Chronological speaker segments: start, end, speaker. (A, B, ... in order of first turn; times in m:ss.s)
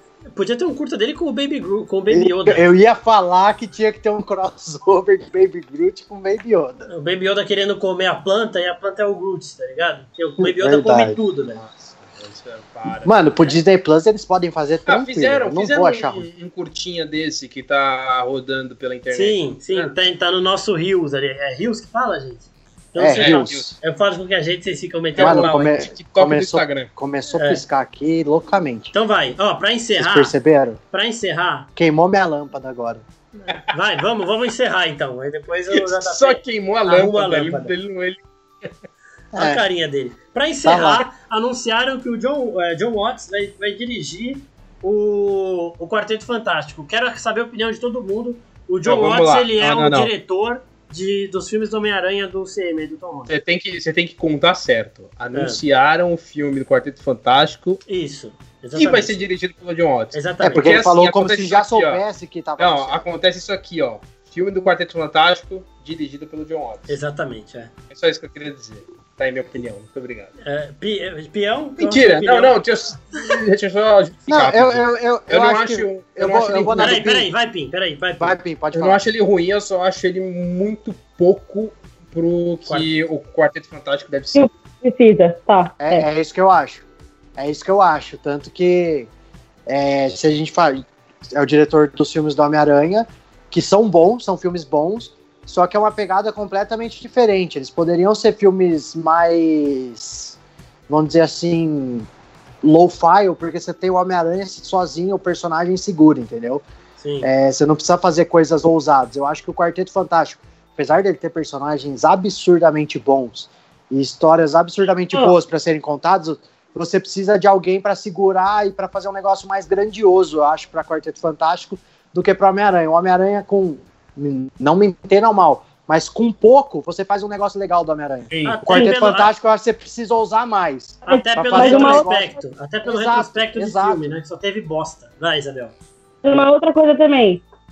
0:00.4-0:02.7 A
0:02.1-0:06.9 B
0:06.9-0:11.6 A
0:10.4-0:11.2 B
0:11.6-0:13.5 C
0:13.0-0:16.3 B
0:14.9-0:19.9 C
0:19.1-0:25.8 A
0:23.0-0:23.8 B
0:23.2-0:23.7 C
0:25.2-0:26.9 C
0:25.2-0:28.9 B
0:27.4-0:27.6 A
0:28.9-0:30.4 A
0:30.0-0:30.8 B
0:30.9-0:31.7 A
0:31.8-0:33.0 B
0:33.4-0:37.7 A
0:35.7-0:38.7 C
0:39.3-0:39.6 B
0:39.4-0:53.3 A
0:40.6-0:41.0 B
0:48.8-0:50.1 C
0:53.3-0:57.8 C
0:55.3-0:55.6 A
0:57.9-0:59.2 A
0:58.8-1:02.0 C
1:00.1-1:00.8 A
1:00.4-1:03.1 B
1:02.6-1:07.0 C
1:06.9-1:07.7 A
1:07.9-1:10.3 C
1:10.4-1:12.6 A
1:11.8-1:17.0 C
1:14.3-1:17.3 B
1:16.8-1:18.4 A
1:18.2-1:19.0 B
1:18.7-1:24.5 C
1:24.3-1:26.1 D
1:25.8-1:26.8 B
1:27.4-1:29.1 B
1:29.7-1:40.4 B
1:40.9-1:42.1 B
1:42.6-1:46.6 B
1:47.0-1:47.3 A
1:47.2-2:14.1 B
2:08.3-2:08.6 C
2:08.4-2:09.3 A
2:11.0-2:15.7 A
2:11.1-2:12.1 D
2:16.2-2:17.4 D